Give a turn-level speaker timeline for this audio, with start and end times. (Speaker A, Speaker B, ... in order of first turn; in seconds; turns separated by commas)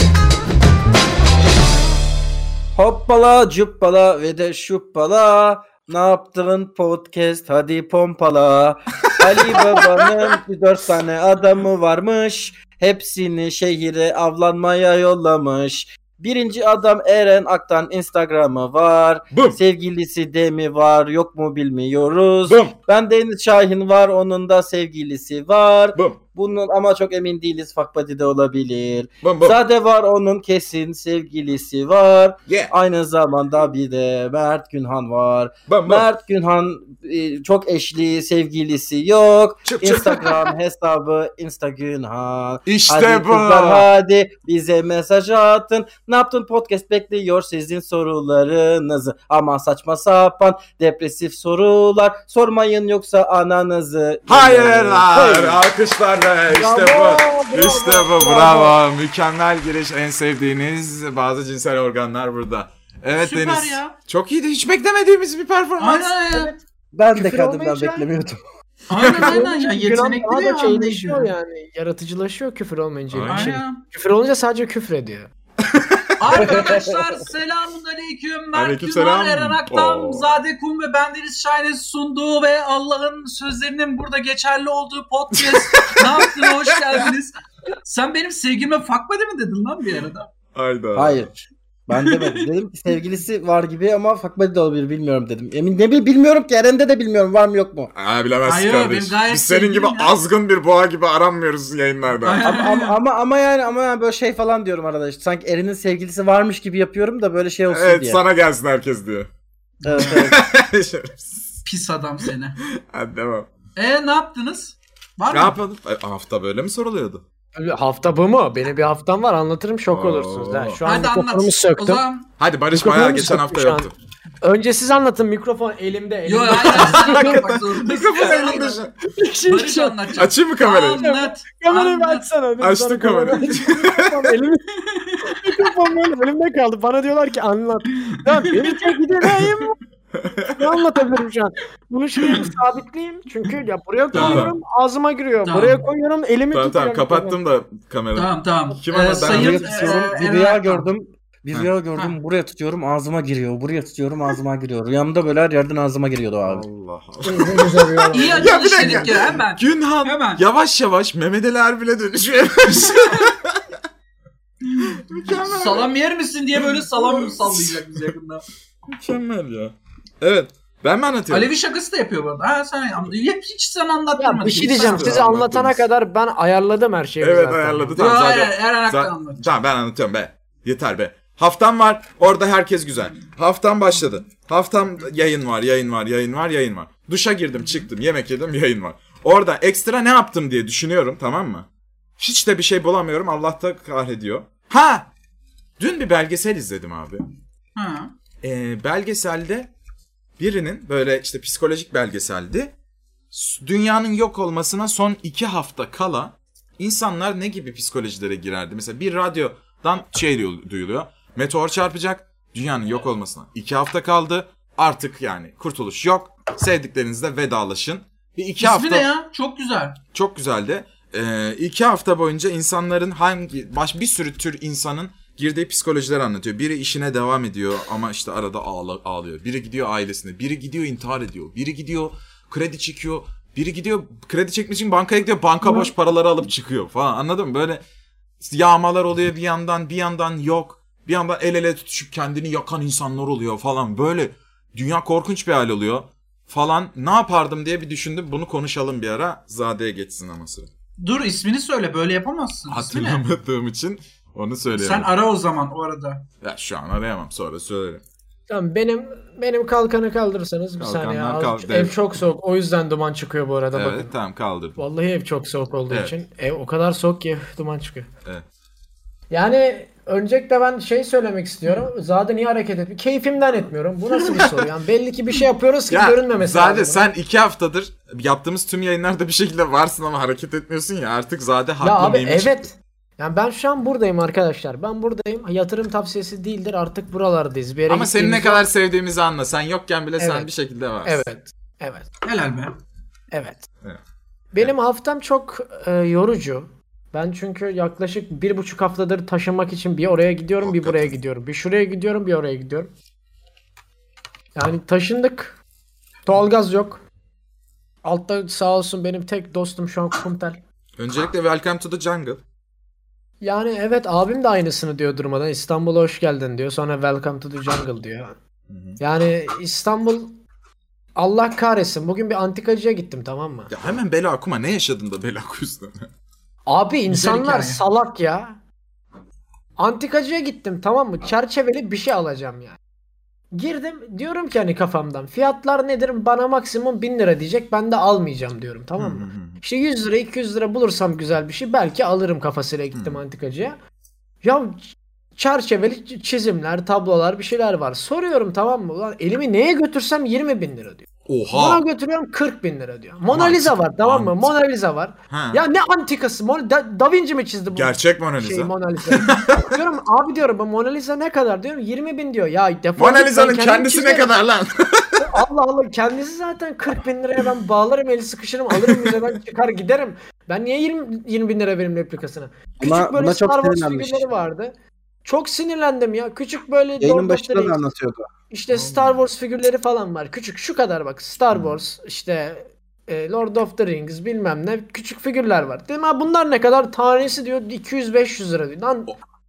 Speaker A: 2.7-55.6, Speaker B: 9.2-10.1, Speaker B: 19.3-19.6, Speaker B: 22.5-22.7, Speaker B: 29.2-29.6, Speaker B: 32.5-32.7, Speaker B: 35.7-36.1, Speaker B: 39.6-40.5, Speaker B: 42.6-43.9, Speaker B: 54.3-66.2, Speaker C: 55.2-55.5, Speaker C: 56.5-58.8, Speaker D: 63.2-64.0, Speaker D: 65.8-66.5, Speaker A: 66.9-68.4, Speaker C: 67.1-68.1, Speaker D: 68.9-71.3, Speaker B: 69.0-69.3, Speaker C: 69.1-75.3, Speaker B: 73.1-73.6, Speaker D: 73.3-73.8, Speaker B: 75.7-76.5, Speaker D: 76.2-90.3, Speaker A: 76.4-77.0, Speaker B: 78.5-80.2, Speaker B: 85.5-86.5, Speaker B: 90.5-91.3, Speaker A: 90.9-97.9, Speaker B: 92.0-92.5, Speaker B: 97.9-102.4, Speaker D: 98.4-100.1, Speaker D: 102.2-103.0, Speaker A: 102.4-108.2, Speaker B: 107.7-109.3, Speaker A: 109.8-110.4, Speaker D: 109.9-110.2, Speaker B: 109.9-111.6, Speaker D: 111.6-112.6, Speaker B: 112.8-113.5, Speaker D: 113.8-115.6, Speaker B: 115.3-117.2, Speaker C: 117.5-122.0, Speaker B: 119.9-120.8, Speaker D: 120.8-122.3, Speaker B: 122.4-123.9, Speaker C: 122.7-123.9, Speaker C: 124.4-127.6, Speaker D: 126.2-128.8, Speaker B: 126.5-128.9, Speaker C: 129.0-130.1, Speaker D: 129.5-132.3, Speaker B: 130.2-131.0, Speaker C: 131.0-134.7, Speaker B: 132.6-134.4, Speaker D: 134.8-135.2, Speaker C: 135.2-139.8, Speaker B: 140.1-140.6, Speaker C: 140.6-147.4, Speaker D: 144.1-144.5, Speaker B: 144.1-144.5, Speaker D: 145.4-145.8, Speaker B: 146.5-150.1, Speaker D: 148.1-150.9, Speaker A: 149.2-156.6, Speaker B: 156.4-163.6, Speaker C: 157.2-159.2, Speaker D: 158.1-160.4, Speaker D: 162.8-163.3, Speaker D: 164.8-168.4, Speaker B: 164.9-165.9, Speaker B: 166.6-167.8, Speaker B: 168.9-171.5, Speaker D: 171.3-175.2, Speaker C: 174.2-178.1, Speaker B: 174.8-175.8, Speaker B: 177.2-191.7, Speaker D: 178.0-179.5, Speaker D: 187.6-187.8, Speaker B: 192.2-195.1, Speaker B: 195.8-197.2, Speaker D: 197.8-198.1, Speaker B: 198.4-199.7, Speaker B: 200.4-202.7, Speaker B: 203.3-219.1, Speaker D: 218.6-220.0, Speaker B: 220.1-237.8, Speaker B: 238.4-250.7, Speaker D: 251.0-253.2, Speaker B: 252.7-255.1, Speaker D: 254.7-256.2, Speaker B: 256.4-258.0, Speaker C: 258.5-264.1, Speaker B: 260.8-262.0, Speaker B: 263.7-264.8, Speaker C: 264.8-268.1, Speaker C: 269.3-277.1, Speaker B: 274.2-274.6, Speaker B: 275.9-282.6, Speaker C: 281.8-288.7, Speaker B: 287.9-291.2, Speaker C: 290.2-290.5, Speaker C: 291.0-292.1, Speaker D: 292.2-292.7, Speaker C: 293.3-293.7, Speaker C: 294.5-302.9, Speaker B: 300.6-301.1, Speaker C: 304.6-305.6, Speaker C: 306.2-307.0, Speaker C: 308.0-310.6, Speaker B: 311.0-312.4, Speaker C: 313.4-318.4, Speaker B: 318.7-319.0, Speaker C: 319.0-320.4, Speaker C: 321.1-323.7, Speaker B: 323.7-326.1, Speaker C: 326.7-328.6, Speaker D: 327.1-327.8, Speaker C: 329.8-332.8, Speaker C: 333.5-343.8, Speaker B: 339.0-339.6, Speaker B: 342.9-343.2, Speaker C: 344.4-364.3, Speaker B: 351.2-351.8, Speaker B: 353.3-354.5, Speaker B: 355.3-355.6, Speaker B: 357.7-359.7, Speaker B: 363.0-365.3, Speaker C: 365.2-377.8, Speaker B: 368.8-369.2, Speaker A: 372.8-374.3, Speaker A: 377.0-378.3, Speaker C: 378.5-389.1, Speaker B: 378.7-379.2, Speaker B: 381.5-381.8